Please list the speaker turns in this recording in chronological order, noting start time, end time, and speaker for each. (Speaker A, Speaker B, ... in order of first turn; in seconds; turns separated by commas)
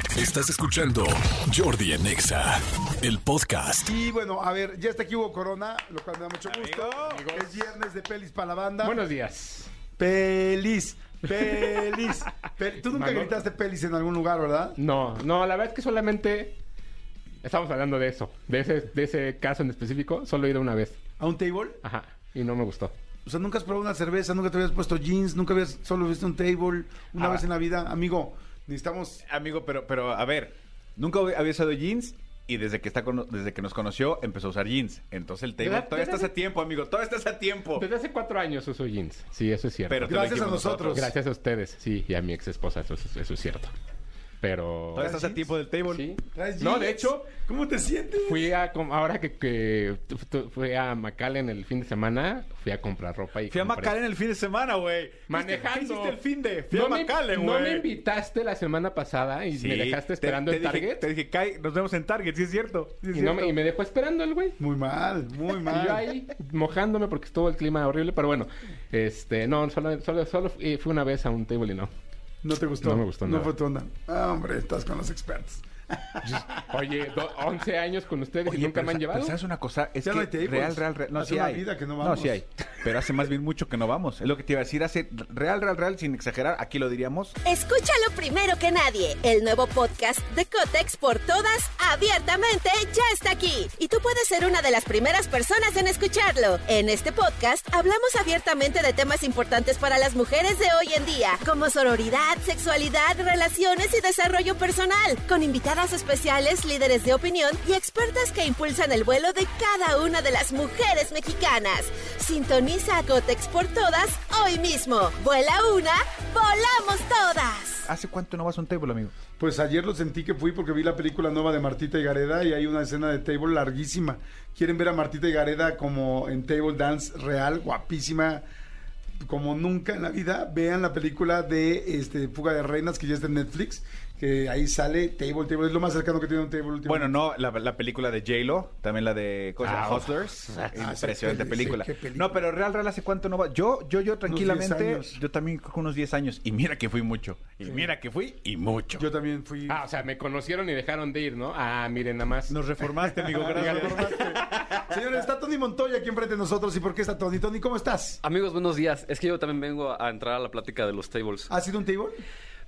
Speaker A: 0.1-3.9, Speaker B: 3.8-9.0, Speaker C: 6.5-7.3, Speaker D: 7.0-7.7, Speaker D: 8.8-9.7, Speaker B: 10.0-14.8, Speaker D: 12.9-13.4, Speaker D: 14.8-16.6, Speaker D: 17.4-21.0, Speaker B: 21.2-21.8, Speaker D: 21.8-22.9, Speaker B: 23.2-29.2, Speaker C: 29.2-37.8, Speaker D: 35.6-36.3, Speaker D: 37.8-40.2, Speaker C: 39.9-41.1, Speaker B: 40.1-41.1, Speaker D: 40.9-43.7, Speaker D: 44.4-45.1, Speaker C: 44.9-46.0, Speaker B: 45.0-45.5, Speaker D: 45.9-47.3, Speaker B: 46.3-48.5, Speaker D: 48.2-54.0, Speaker C: 53.5-57.9, Speaker D: 55.3-56.2, Speaker D: 56.7-61.1, Speaker C: 59.5-63.5, Speaker D: 63.1-64.6, Speaker B: 64.6-66.2, Speaker D: 65.7-71.9, Speaker B: 72.4-76.3, Speaker D: 72.8-73.5, Speaker D: 76.2-79.4, Speaker C: 78.5-87.3, Speaker B: 80.0-82.4, Speaker E: 87.4-117.9, Speaker C: 117.9-119.1, Speaker B: 119.4-128.4, Speaker B: 129.2-137.2, Speaker C: 136.8-149.1, Speaker D: 139.6-140.8, Speaker B: 140.8-142.4, Speaker B: 144.3-145.2, Speaker B: 149.0-149.8, Speaker D: 149.7-152.6, Speaker C: 152.5-154.8, Speaker B: 153.1-158.2, Speaker D: 153.5-154.2, Speaker F: 158.2-161.5, Speaker B: 161.5-162.2